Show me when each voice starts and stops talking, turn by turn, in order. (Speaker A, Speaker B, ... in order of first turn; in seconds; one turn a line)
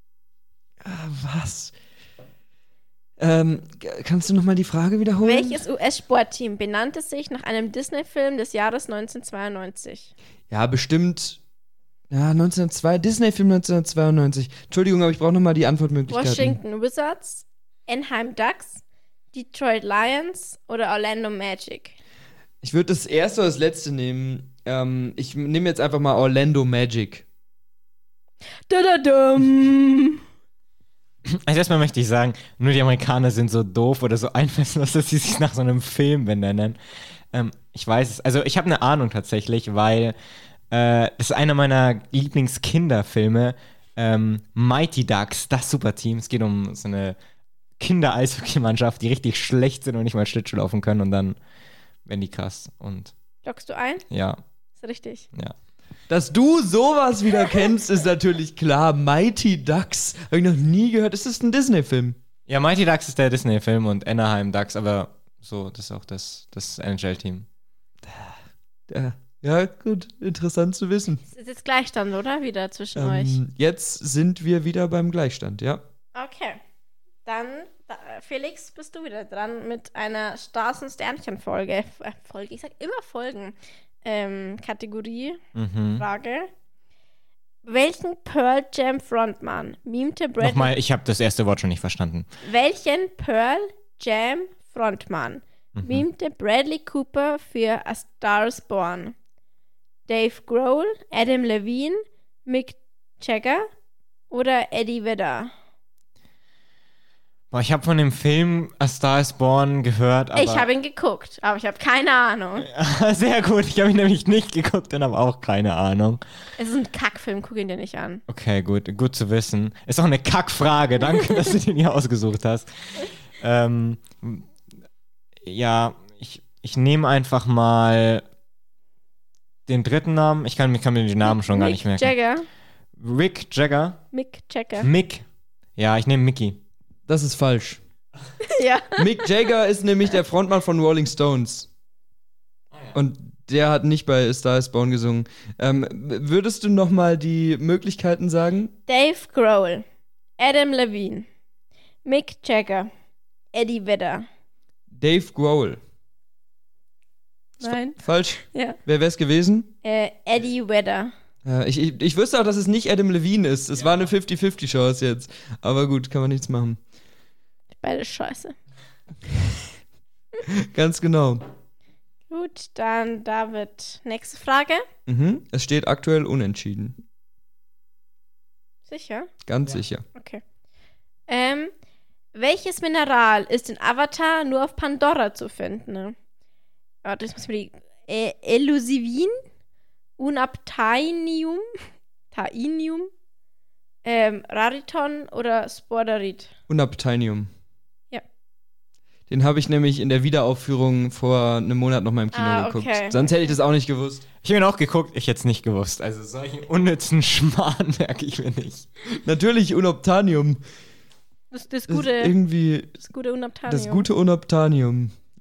Speaker A: 0.8-1.7
Speaker A: 3.2-5.6
Speaker B: 5.2-10.1
Speaker A: 10.5-11.4
Speaker A: 12.1-16.6
Speaker B: 16.1-18.8
Speaker B: 19.3-21.9
Speaker A: 22.6-27.2
Speaker B: 28.7-30.2
Speaker C: 31.2-36.8
Speaker C: 37.3-40.1
Speaker C: 40.7-47.2
Speaker C: 47.8-51.4
Speaker C: 52.0-53.1
Speaker B: 53.4-54.0
Speaker C: 54.1-54.4
Speaker B: 54.8-55.2
Speaker A: 56.1-62.2
Speaker C: 62.5-67.5
Speaker A: 68.0-68.3
Speaker A: 68.9-71.2
Speaker B: 71.3-73.4
Speaker A: 73.0-75.8
Speaker B: 76.1-76.6
Speaker B: 77.2-85.4
Speaker C: 85.5-86.0
Speaker B: 86.0-86.5
Speaker B: 87.6-90.7
Speaker C: 90.4-92.3
Speaker B: 92.4-99.1
Speaker C: 95.7-96.0
Speaker B: 100.1-103.7
Speaker B: 104.3-105.5
Speaker C: 107.5-110.7
Speaker B: 110.3-112.7
Speaker C: 112.6-116.2
Speaker B: 116.6-118.2
Speaker C: 118.3-124.5
Speaker C: 125.4-128.2
Speaker C: 129.7-132.1
Speaker B: 131.2-132.5
Speaker C: 133.0-134.0
Speaker B: 134.1-134.9
Speaker C: 134.8-135.2
Speaker C: 135.8-136.6
Speaker A: 137.1-137.8
Speaker B: 138.4-139.2
Speaker A: 139.0-141.7
Speaker A: 142.9-148.7
Speaker B: 148.9-149.8
Speaker B: 150.4-151.3
Speaker B: 152.0-152.9
Speaker B: 153.5-154.3
Speaker A: 154.9-155.8
Speaker A: 157.6-159.7
Speaker B: 157.6-158.8
Speaker B: 159.8-161.1
Speaker A: 161.4-166.8
Speaker B: 167.8-168.5
Speaker A: 169.3-169.7
Speaker A: 170.4-171.4
Speaker B: 172.3-174.8
Speaker A: 175.1-177.0
Speaker B: 178.9-179.3
Speaker A: 179.4-180.0
Speaker B: 180.1-180.4
Speaker B: 181.3-181.7
Speaker B: 182.3-186.1
Speaker B: 187.0-189.4
Speaker B: 190.2-191.7
Speaker B: 192.3-193.1
Speaker B: 194.0-196.5
Speaker A: 196.7-197.5
Speaker A: 199.3-204.2
Speaker B: 202.3-203.4
Speaker C: 204.4-209.2
Speaker A: 209.2-210.6
Speaker B: 211.5-212.3
Speaker A: 211.9-212.9
Speaker B: 213.0-214.1
Speaker A: 213.7-215.1